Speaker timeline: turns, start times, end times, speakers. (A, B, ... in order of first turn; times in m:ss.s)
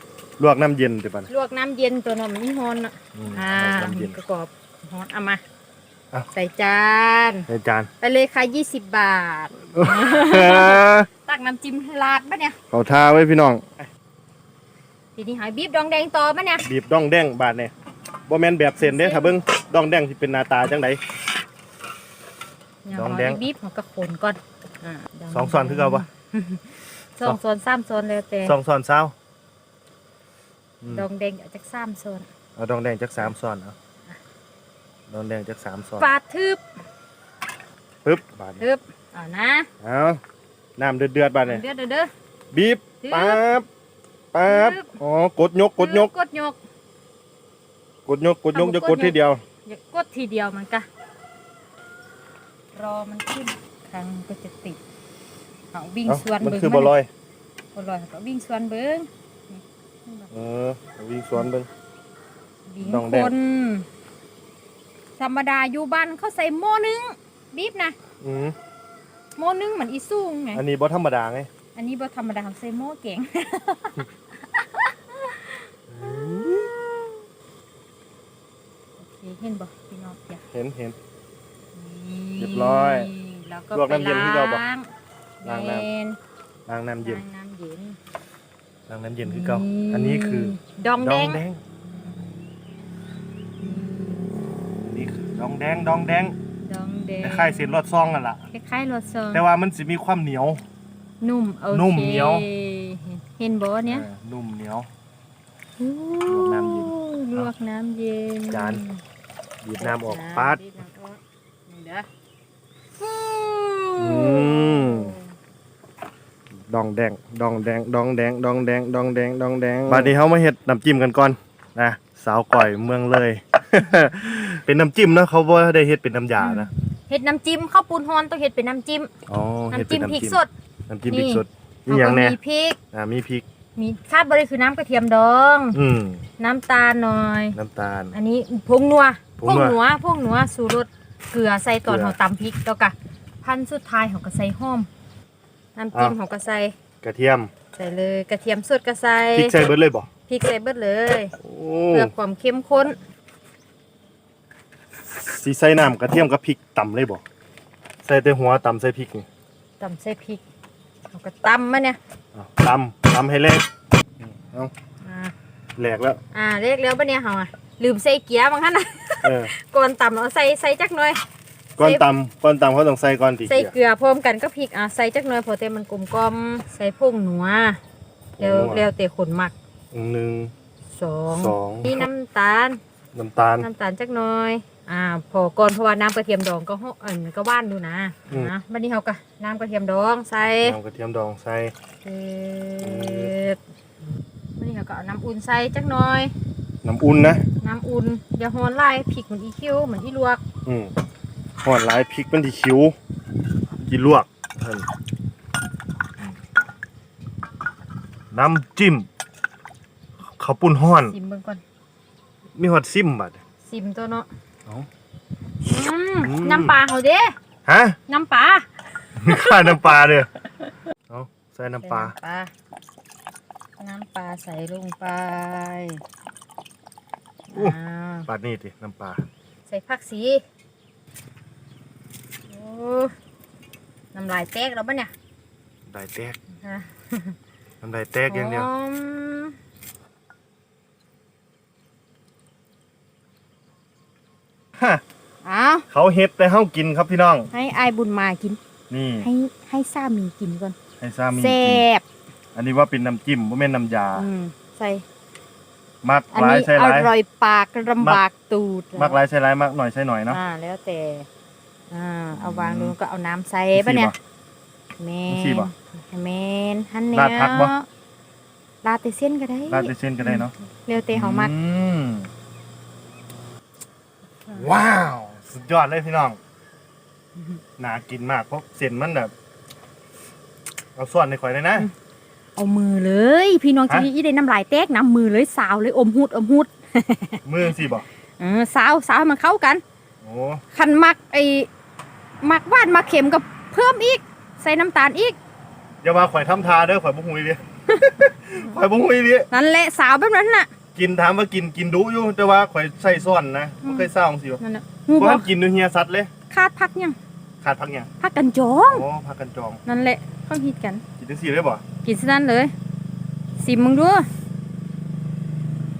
0:00.4-0:01.3 A
0:01.3-0:05.4 B
0:03.2-0:04.2 A
0:06.3-0:07.5 B
0:07.5-0:07.9 A
0:08.0-0:12.6 B
0:09.7-0:11.1 A
0:12.7-0:13.9 A
0:15.2-0:16.6 B
0:16.6-0:17.7 A
0:18.3-0:21.0 A
0:18.8-0:19.3 B
0:22.8-0:28.6 B
0:22.9-0:23.5 A
0:25.3-0:26.1 A
0:28.4-0:29.1 A
0:30.8-0:31.1 A
0:30.9-0:32.3 B
0:32.6-0:33.8 A
0:35.1-0:36.1 A
0:36.0-0:36.6 B
0:38.0-0:38.6 A
0:38.6-0:39.7 B
0:39.8-0:40.2 A
0:40.8-0:41.6 A
0:41.4-0:42.1 B
0:42.5-0:43.7 A
0:43.0-0:43.4 B
0:44.3-0:46.1 A
0:44.5-0:45.0 B
0:45.8-0:46.6 B
0:48.1-0:49.4 A
0:48.5-0:50.9 B
0:52.8-0:54.8 B
0:55.7-0:56.9 B
0:56.1-0:57.1 A
0:57.7-1:00.3 B
1:00.3-1:01.7 A
1:02.7-1:03.9 B
1:02.8-1:03.3 A
1:05.2-1:08.0 B
1:08.2-1:08.6 A
1:09.4-1:10.6 B
1:10.5-1:11.5 A
1:11.8-1:15.6 B
1:15.9-1:16.8 A
1:19.0-1:20.4 B
1:20.5-1:21.0 A
1:21.8-1:24.9 B
1:22.4-1:23.1 A
1:23.7-1:24.6 A
1:25.4-1:26.2 B
1:25.4-1:25.9 A
1:26.7-1:27.2 A
1:27.0-1:28.0 B
1:28.9-1:31.6 A
1:29.2-1:31.4 B
1:33.6-1:34.6 B
1:34.8-1:36.4 A
1:36.6-1:37.8 B
1:37.2-1:38.4 A
1:38.5-1:39.4 B
1:39.3-1:40.6 A
1:41.2-1:44.1 B
1:41.7-1:42.5 A
1:43.8-1:44.9 A
1:45.8-1:49.0 B
1:46.3-1:47.5 A
1:48.5-1:48.8 A
1:49.6-1:50.6 A
1:49.8-1:52.1 B
1:53.0-1:55.3 B
1:54.0-1:55.2 A
1:56.7-2:06.7 A
2:06.4-2:09.1 B
2:09.3-2:12.4 A
2:09.7-2:10.5 B
2:11.1-2:12.8 B
2:12.9-2:13.4 A
2:13.8-2:15.8 B
2:15.7-2:16.2 A
2:16.4-2:17.6 B
2:17.6-2:18.2 A
2:18.1-2:24.9 B
2:19.4-2:19.8 A
2:21.9-2:22.2 A
2:25.8-2:26.8 B
2:27.0-2:27.5 A
2:27.7-2:29.6 B
2:29.4-2:30.1 A
2:30.3-2:31.4 B
2:31.4-2:32.1 A
2:31.9-2:33.0 B
2:35.2-2:37.2 A
2:38.0-2:39.3 A
2:39.8-2:40.4 B
2:41.1-2:42.0 B
2:42.3-2:43.7 A
2:44.2-2:44.7 A
2:45.0-2:45.3 B
2:45.8-2:46.2 A
2:46.3-2:51.2 B
2:49.2-2:49.5 A
2:51.8-2:52.1 B
2:51.8-2:53.8 A
2:53.5-2:57.8 B
2:58.4-2:58.9 A
2:58.4-2:59.5 B
2:59.9-3:00.5 A
3:00.9-3:02.8 B
3:01.3-3:02.1 A
3:03.1-3:03.7 A
3:03.6-3:10.8 B
3:08.3-3:08.5 A
3:10.6-3:11.7 A
3:12.0-3:13.6 B
3:12.8-3:13.3 A
3:14.6-3:16.3 B
3:16.8-3:17.4 A
3:17.6-3:20.4 B
3:20.7-3:20.9 A
3:21.6-3:23.0 A
3:23.8-3:24.9 A
3:28.3-3:29.1 A
3:30.4-3:31.2 A
3:31.1-3:31.6 B
3:32.6-3:33.4 A
3:33.6-3:34.3 B
3:35.6-3:37.3 B
3:36.2-3:36.8 A
3:37.7-3:38.0 A
3:38.1-3:38.7 B
3:39.2-3:40.3 A
3:39.2-3:39.8 B
3:41.1-3:42.2 A
3:41.8-3:42.5 B
3:43.8-3:46.0 B
3:47.5-3:48.3 B
3:47.6-3:49.2 A
3:49.7-3:50.4 B
3:52.5-3:53.1 B
3:54.1-3:55.1 B
3:55.9-3:56.4 A
3:56.6-3:57.4 B
3:57.8-3:58.7 A
3:58.3-3:59.6 B
4:04.8-4:05.0 A
4:05.4-4:05.8 B
4:05.9-4:07.5 A
4:07.5-4:08.6 B
4:08.9-4:09.3 A
4:09.2-4:10.8 B
4:11.0-4:11.8 A
4:11.3-4:12.0 B
4:12.6-4:14.2 A
4:14.2-4:15.0 B
4:16.0-4:17.1 A
4:16.3-4:19.2 B
4:19.0-4:20.4 A
4:20.3-4:21.3 B
4:21.9-4:24.1 B
4:22.3-4:23.0 A
4:23.8-4:24.2 A
4:25.0-4:27.9 B
4:25.3-4:25.7 A
4:27.1-4:27.7 A
4:28.8-4:31.5 B
4:29.7-4:30.5 A
4:31.1-4:32.3 A
4:34.5-4:36.4 A
4:37.8-4:39.3 A
4:41.0-4:41.9 A
4:42.6-4:47.4 B
4:47.4-4:48.0 A
4:48.4-4:49.8 B
4:50.2-4:50.6 A
4:50.7-4:51.7 B
4:52.4-4:55.4 B
4:56.0-4:59.5 A
4:57.9-4:58.2 B
4:59.5-5:00.7 B
5:01.0-5:04.6 A
5:03.8-5:05.5 B
5:05.2-5:06.3 A
5:06.5-5:07.2 B
5:07.6-5:08.1 A
5:08.2-5:09.1 B
5:08.9-5:09.8 A
5:09.9-5:11.0 B
5:11.2-5:11.8 A
5:12.0-5:12.7 B
5:13.6-5:14.3 B